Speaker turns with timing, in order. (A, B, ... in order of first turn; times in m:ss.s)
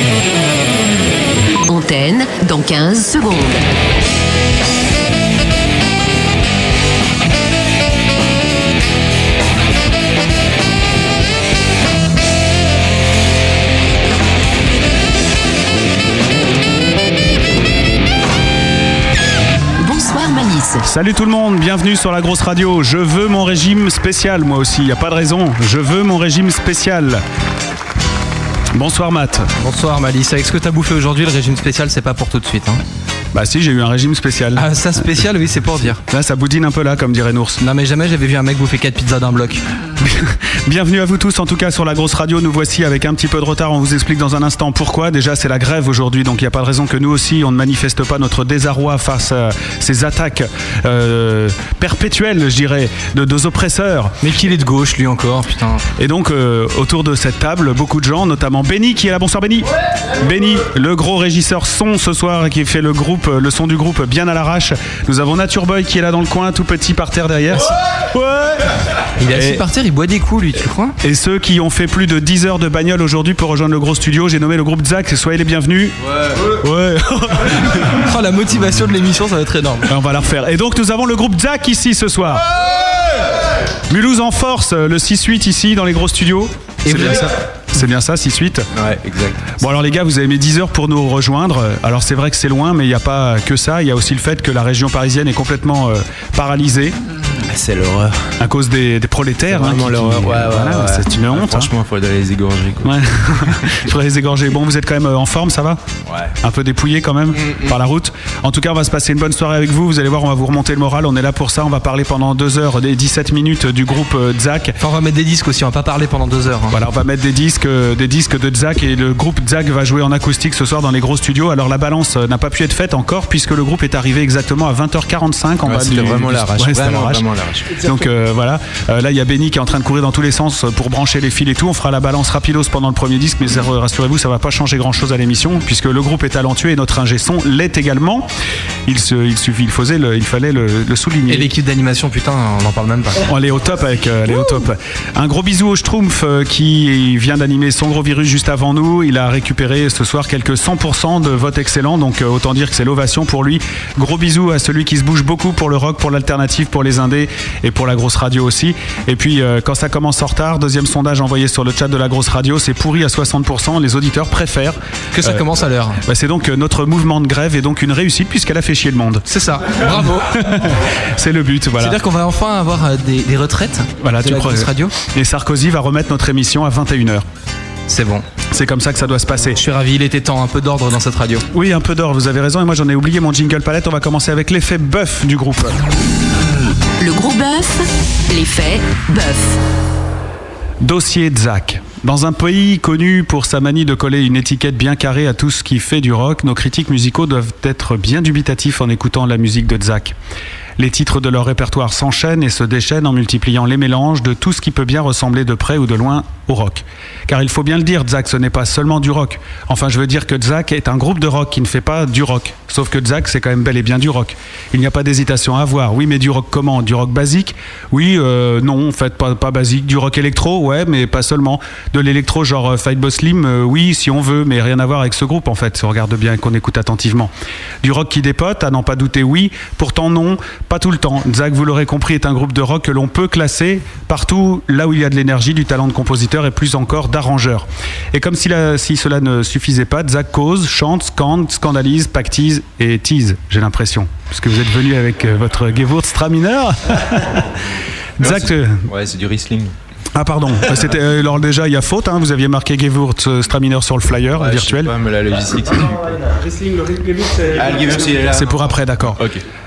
0:01.6-0:03.6 A
0:19.8-0:20.8 A
0:20.8-0:27.2 B
0:28.7-0:29.5 B
0:29.6-0:32.8 C
0:33.3-0:34.7 B
0:34.6-0:36.0 C
0:36.0-0:37.6 B
0:37.6-0:39.6 C
0:40.0-0:54.2 B
0:54.2-0:55.8 C
0:56.0-1:08.7 B
1:09.2-1:11.0 C
1:09.3-1:09.6 B
1:11.0-1:18.0 B
1:17.7-1:19.9 C
1:19.9-1:22.5 B
1:22.6-1:23.3 D
1:23.9-1:28.7 B
1:26.8-1:27.3 C
1:28.7-1:29.6 D
1:29.6-1:37.0 B
1:37.4-1:38.3 D
1:38.4-1:41.7 B
1:39.5-1:43.8 D
1:42.8-1:45.8 B
1:46.1-1:46.3 D
1:46.4-1:54.8 B
1:47.4-1:47.8 D
1:54.8-1:56.8 C
1:56.7-2:07.2 B
2:05.6-2:07.7 D
2:07.7-2:08.0 E
2:07.8-2:18.3 B
2:18.9-2:21.5 B
2:21.3-2:23.2 C
2:23.3-2:45.4 B
2:45.1-2:46.0 C
2:46.0-2:49.2 B
2:49.3-2:50.7 C
2:49.8-2:52.0 B
2:51.8-2:54.9 C
2:54.0-2:57.2 B
2:57.9-2:58.2 C
2:58.5-2:59.6 B
2:59.6-3:01.4 C
3:01.5-3:05.8 B
3:07.0-3:09.6 A
3:10.8-3:20.2 B
3:20.8-3:47.3 B
3:47.8-4:07.5 B
4:08.2-4:08.9 B
4:08.2-4:09.7 D
4:10.1-4:14.9 B
4:14.3-4:16.2 D
4:16.2-4:18.2 E
4:17.6-4:19.4 D
4:18.2-4:19.2 B